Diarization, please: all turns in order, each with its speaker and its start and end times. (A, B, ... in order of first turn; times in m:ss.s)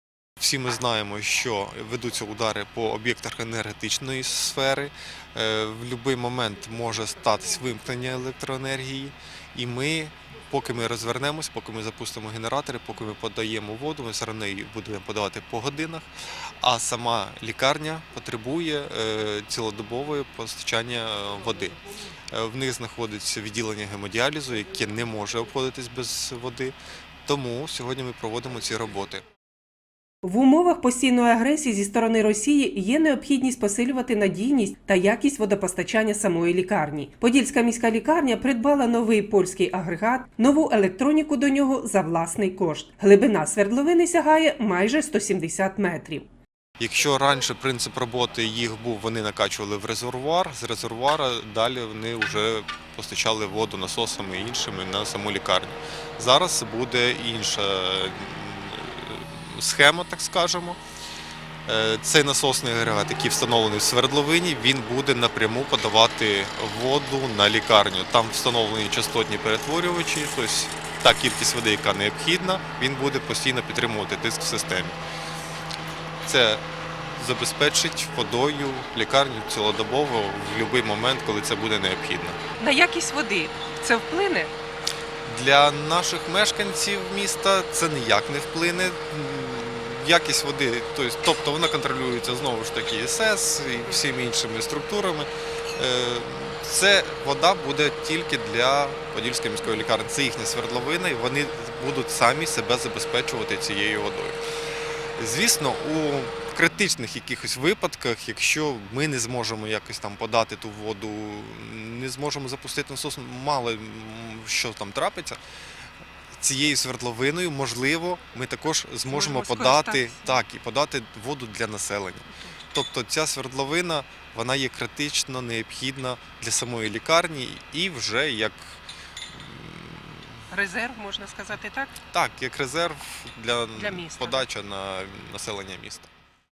0:00.4-0:16.1 A
0:16.6-0:21.8 A
0:22.3-0:26.7 A
0:27.2-0:29.2 A
0:30.2-0:46.3 B
0:46.8-1:00.8 A
1:01.6-1:15.0 A
1:16.2-1:16.6 A
1:17.1-1:22.4 A
1:22.6-1:24.5 B
1:25.2-1:44.4 A
1:45.2-1:55.4 A
1:56.4-2:08.8 A
1:59.1-2:00.4 B
2:09.3-2:10.2 A
2:10.5-2:12.0 B
2:12.1-2:16.1 A
2:13.8-2:14.4 B